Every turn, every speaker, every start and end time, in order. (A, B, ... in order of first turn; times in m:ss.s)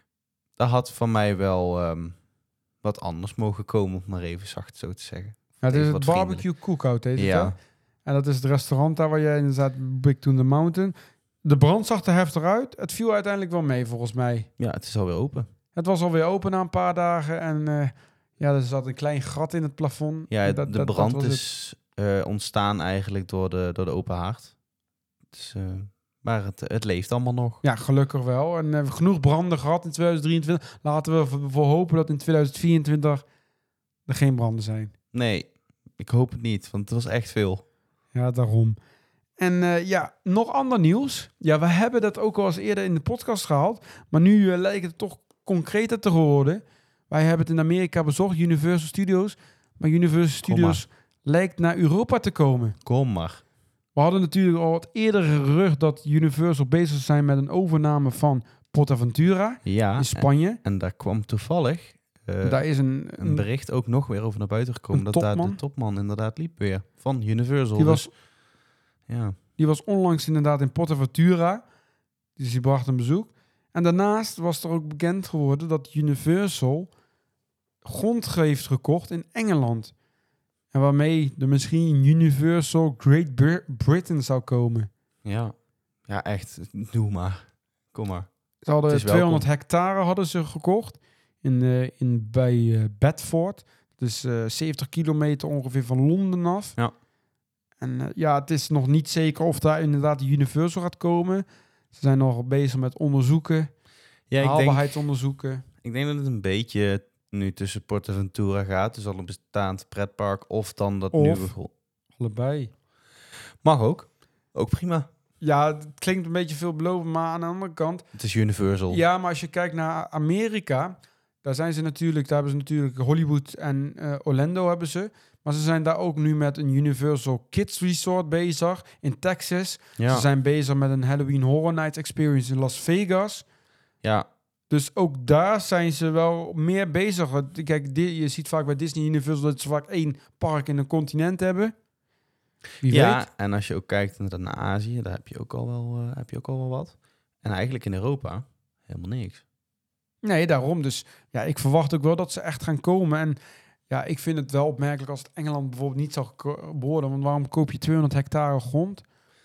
0:00.6-0:02.2 A
0:02.8-0:06.5 A
0:05.6-0:14.5 B
0:07.2-0:07.6 A
0:14.6-0:15.5 A
0:15.8-0:21.4 B
0:20.3-0:24.6 A
0:25.3-0:27.6 A
0:27.6-0:33.2 B
0:34.1-0:34.9 B
0:35.1-0:37.6 A
0:38.1-0:38.8 B
0:39.4-0:52.8 B
0:50.5-0:50.8 A
0:52.8-0:53.4 A
0:54.0-1:00.6 B
0:59.6-1:02.7 A
1:02.4-1:03.5 B
1:03.2-1:08.1 A
1:04.9-1:05.6 B
1:07.8-1:08.1 B
1:09.1-1:09.4 A
1:09.6-1:11.6 B
1:12.4-1:16.9 B
1:17.8-1:19.9 B
1:20.7-1:24.9 B
1:25.2-1:25.6 A
1:26.1-1:28.3 A
1:28.7-1:36.8 B
1:28.9-1:29.4 A
1:37.8-1:43.7 B
1:44.3-1:44.9 A
1:44.4-1:45.6 B
1:45.8-1:51.7 A
1:51.1-1:51.5 B
1:52.2-1:52.7 B
1:53.6-1:55.1 A
1:55.4-1:58.0 B
1:58.2-1:59.0 A
1:58.9-2:13.4 B
2:10.0-2:10.2 A
2:14.0-2:14.3 A
2:14.7-2:21.7 B
2:22.8-2:23.2 B
2:22.8-2:29.4 A
2:30.2-2:33.4 B
2:33.9-2:39.0 B